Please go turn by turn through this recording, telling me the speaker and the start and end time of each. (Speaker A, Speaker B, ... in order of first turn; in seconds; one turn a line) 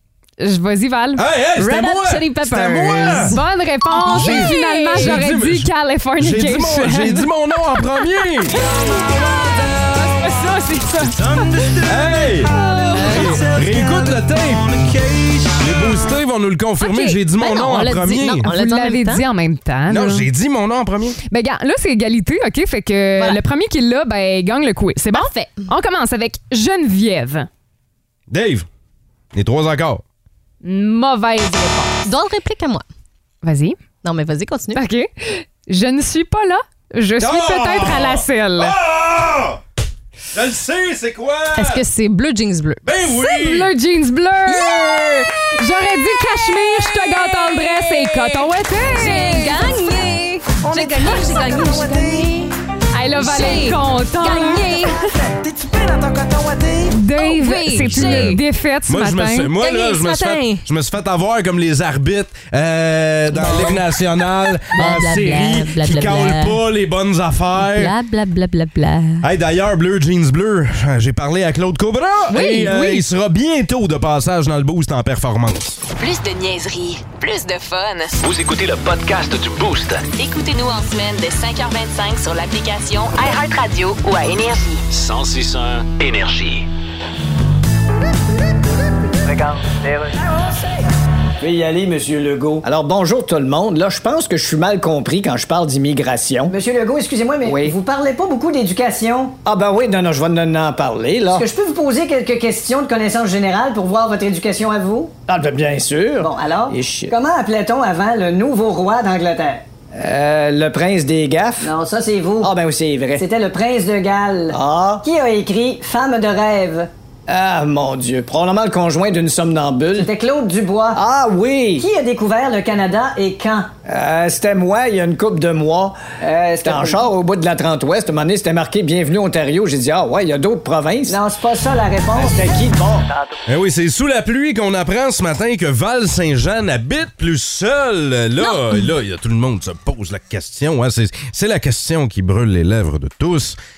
Speaker A: 0.4-1.2
Speaker B: 1.2-3.4
Speaker C: 1.6-3.4
Speaker A: 3.2-7.3
Speaker C: 3.9-5.2
Speaker B: 4.1-8.6
Speaker A: 10.0-11.4
Speaker B: 11.8-18.5
Speaker C: 12.8-13.4
Speaker A: 12.8-13.3
Speaker A: 16.9-17.1
Speaker C: 17.4-19.2
Speaker A: 18.4-20.3
Speaker B: 19.9-21.2
Speaker A: 21.3-27.5
Speaker C: 25.1-25.6
Speaker B: 28.3-28.7
Speaker B: 29.3-30.0
Speaker A: 30.6-31.9
Speaker C: 32.0-32.9
Speaker A: 33.4-33.8
Speaker C: 34.0-34.8
Speaker A: 34.7-38.8
Speaker B: 37.2-39.6
Speaker B: 40.3-41.8
Speaker C: 41.5-42.8
Speaker B: 42.9-43.7
Speaker A: 43.2-49.7
Speaker C: 44.5-45.3
Speaker C: 46.5-52.6
Speaker A: 50.8-51.2
Speaker A: 52.9-54.8
Speaker C: 53.2-55.1
Speaker A: 56.9-59.5
Speaker C: 57.1-58.4
Speaker B: 57.7-67.9
Speaker C: 59.6-60.6
Speaker C: 63.3-63.8
Speaker C: 64.7-66.6
Speaker C: 67.6-69.2
Speaker B: 69.2-75.8
Speaker C: 72.3-73.0
Speaker D: 76.0-78.2
Speaker E: 78.2-80.1
Speaker D: 80.2-84.8
Speaker E: 84.9-86.7
Speaker F: 89.2-90.2
Speaker F: 91.4-96.5
Speaker G: 96.5-99.4
Speaker F: 97.4-97.8
Speaker F: 99.5-101.5
Speaker G: 101.3-105.1
Speaker F: 105.3-107.1
Speaker G: 106.2-109.6
Speaker F: 109.9-111.7
Speaker G: 111.6-112.5
Speaker F: 112.4-113.2
Speaker G: 113.2-116.9
Speaker F: 114.5-115.0
Speaker F: 117.3-120.1
Speaker G: 120.0-121.0
Speaker F: 121.0-121.9
Speaker G: 121.8-123.7
Speaker F: 123.9-131.2
Speaker G: 126.6-127.1
Speaker G: 131.1-132.5
Speaker F: 132.1-133.1
Speaker B: 133.5-143.6